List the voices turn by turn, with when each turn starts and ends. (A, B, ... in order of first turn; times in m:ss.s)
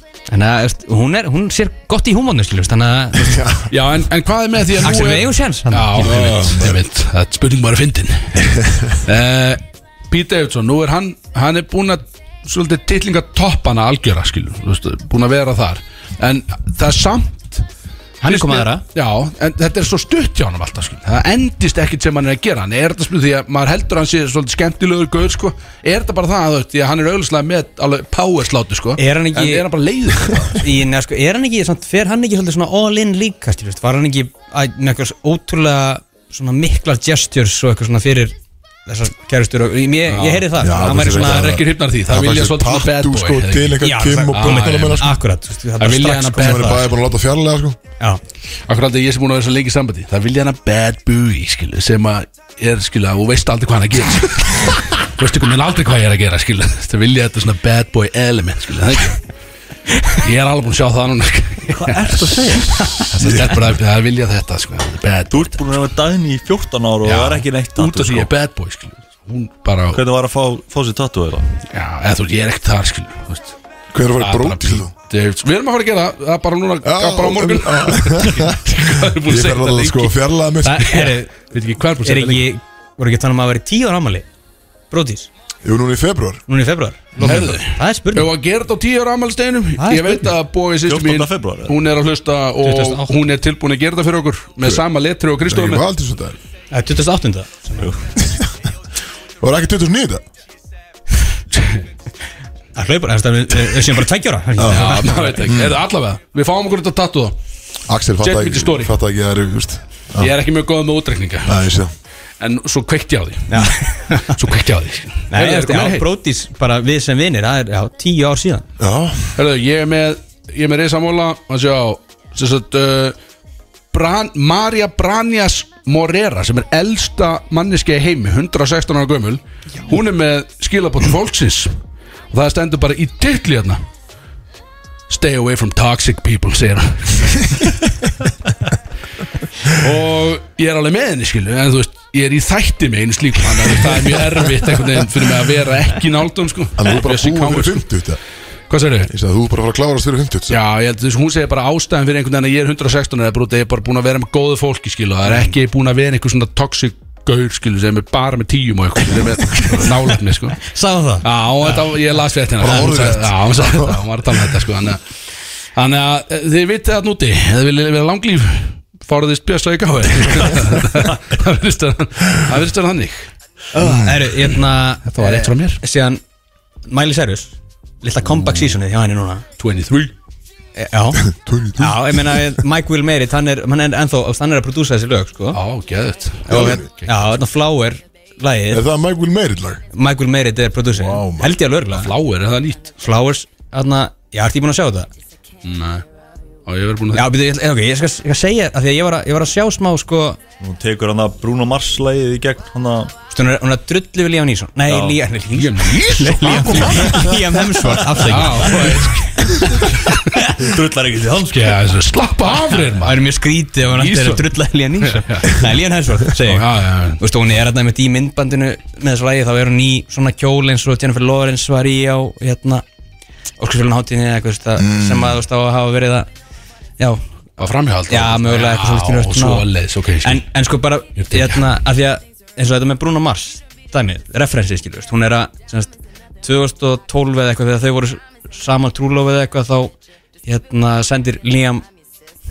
0:00.3-0:03.4 A
0:03.2-0:03.7 B
0:03.7-0:17.6 C
0:04.8-0:06.2 A
0:06.0-0:06.8 B
0:08.4-0:08.9 B
0:18.2-0:18.8 A
0:18.2-0:30.6 C
0:29.0-0:29.6 A
0:30.6-0:38.3 A
0:38.8-0:41.6 A
0:40.1-0:45.2 C
0:40.6-0:45.2 B
0:43.8-0:46.8 A
0:45.8-0:46.9 C
0:46.4-0:47.8 B
0:48.7-0:59.2 C
1:00.1-1:05.6 C
1:01.7-1:03.4 D
1:03.1-1:03.6 B
1:05.3-1:08.3 D
1:07.0-1:10.0 C
1:09.9-1:11.5 D
1:11.7-1:13.6 C
1:13.9-1:14.9 B
1:14.2-1:20.2 C
1:16.8-1:21.0 B
1:20.6-1:21.4 A
1:20.8-1:22.5 C
1:22.0-1:24.2 A
1:24.9-1:25.3 A
1:25.6-1:26.4 B
1:26.5-1:28.3 A
1:27.2-1:27.5 B
1:27.2-1:35.8 C
1:29.8-1:30.3 A
1:30.9-1:31.8 D
1:32.6-1:33.1 A
1:35.4-1:36.4 B
1:36.7-1:37.9 A
1:38.2-1:38.5 B
1:39.4-1:40.2 B
1:42.8-1:45.5 A
1:44.6-1:44.9 B
1:44.6-1:47.4 C
1:45.4-1:45.8 B
1:47.9-1:50.3 B
1:48.2-1:48.9 C
1:50.2-1:51.6 C
1:51.4-1:51.9 B
1:52.4-1:56.1 C
1:53.5-1:54.4 A
1:55.3-1:58.6 A
1:58.8-1:59.3 B
1:59.4-2:03.2 C
2:03.9-2:11.7 C
2:12.3-2:13.8 C
2:15.1-2:17.9 C
2:19.6-2:27.8 C
2:26.8-2:28.2 B
2:28.7-2:29.1 C
2:29.1-2:30.6 B
2:30.5-2:40.6 C
2:35.3-2:35.5 A
2:40.6-2:41.8 A
2:41.2-2:45.0 C
2:42.6-2:44.4 B
2:45.8-2:53.3 C
2:53.7-2:56.2 A
2:53.8-2:54.2 B
2:55.0-2:55.8 C
2:56.9-2:59.4 A
2:59.6-3:00.1 C
3:00.8-3:01.2 A
3:01.2-3:02.6 B
3:01.8-3:05.6 A
3:05.5-3:07.3 C
3:06.5-3:08.8 A
3:06.5-3:06.8 B
3:08.7-3:09.8 B
3:09.9-3:12.1 A
3:10.9-3:11.6 B
3:11.9-3:12.9 C
3:13.0-3:15.1 A
3:15.6-3:16.0 C
3:16.6-3:17.3 C
3:17.1-3:20.4 A
3:20.6-3:23.1 D
3:23.3-3:30.5 A
3:24.9-3:25.2 D
3:25.5-3:27.3 C
3:28.2-3:30.3 C
3:30.6-3:31.9 D
3:31.5-3:33.2 C
3:32.9-3:42.8 A
3:33.9-3:35.6 C
3:36.3-3:37.2 C
3:43.6-3:46.3 A
3:44.8-3:45.4 B
3:47.6-3:50.4 C
3:48.1-3:49.6 A
3:50.2-3:59.9 A
3:51.2-3:51.7 C
4:00.4-4:01.8 A